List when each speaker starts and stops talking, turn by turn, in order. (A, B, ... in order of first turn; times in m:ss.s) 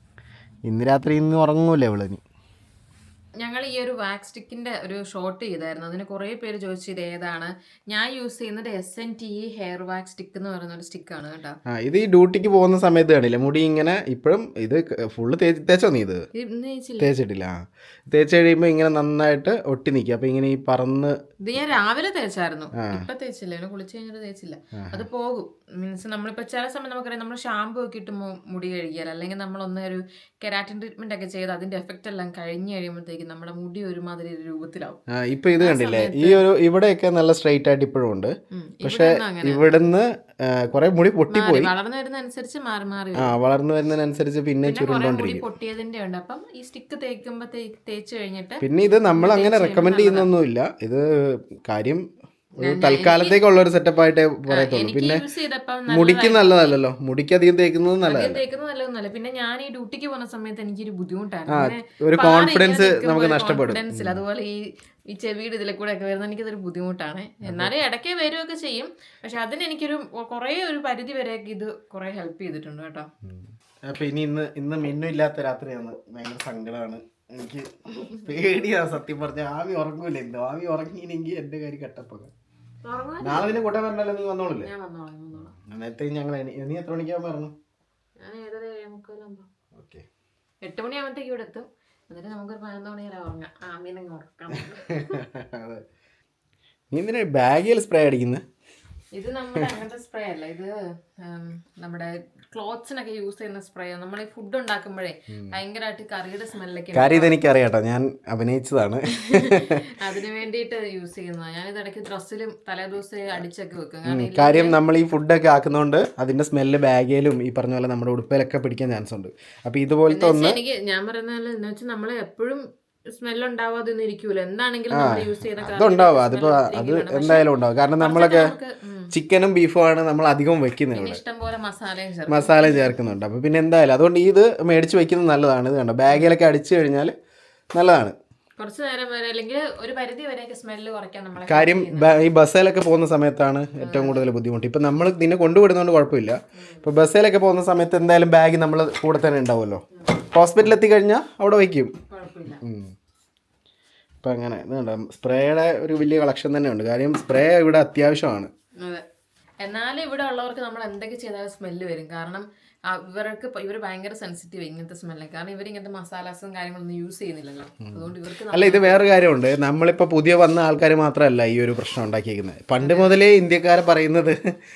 0:00.6-0:02.2 A
0:03.4-0:11.6 B
0:11.7-0:16.2 A
0:16.3-0:17.2 B
0:17.0-0:21.2 A
0:21.4-0:35.0 B
0:22.7-0:23.1 A
0:24.7-0:25.1 A
0:35.1-0:41.7 A
0:35.5-0:36.4 B
0:38.5-0:39.7 B
0:41.3-0:43.4 B
0:43.1-0:45.4 A
0:44.6-0:50.3 B
0:48.6-0:52.1 A
0:52.6-0:55.2 A
0:52.6-0:53.4 B
0:54.5-0:56.8 B
0:55.9-0:58.4 A
0:58.0-1:13.1 B
1:01.5-1:04.2 A
1:07.4-1:07.7 A
1:13.3-1:22.3 A
1:22.8-1:23.6 B
1:23.2-1:24.7 A
1:24.6-1:25.6 B
1:25.6-1:27.5 A
1:28.2-1:29.5 B
1:29.7-1:30.0 A
1:30.6-1:35.2 B
1:34.5-1:35.8 A
1:36.9-1:38.4 A
1:39.1-1:40.7 B
1:41.2-1:47.4 B
1:45.3-1:45.6 A
1:46.9-1:50.0 A
1:49.1-1:54.8 B
1:54.0-2:00.6 A
2:00.1-2:09.1 B
2:04.9-2:08.5 A
2:09.1-2:11.2 A
2:10.9-2:13.0 B
2:12.3-2:17.1 A
2:16.1-2:16.4 B
2:17.7-2:18.1 A
2:18.6-2:22.2 B
2:21.4-2:31.9 A
2:23.8-2:24.3 B
2:26.5-2:26.9 B
2:32.1-2:32.6 B
2:32.6-2:32.9 A
2:34.2-2:38.5 A
2:38.8-2:39.0 B
2:39.6-2:49.1 B
2:47.8-2:54.4 A
2:52.8-2:53.2 B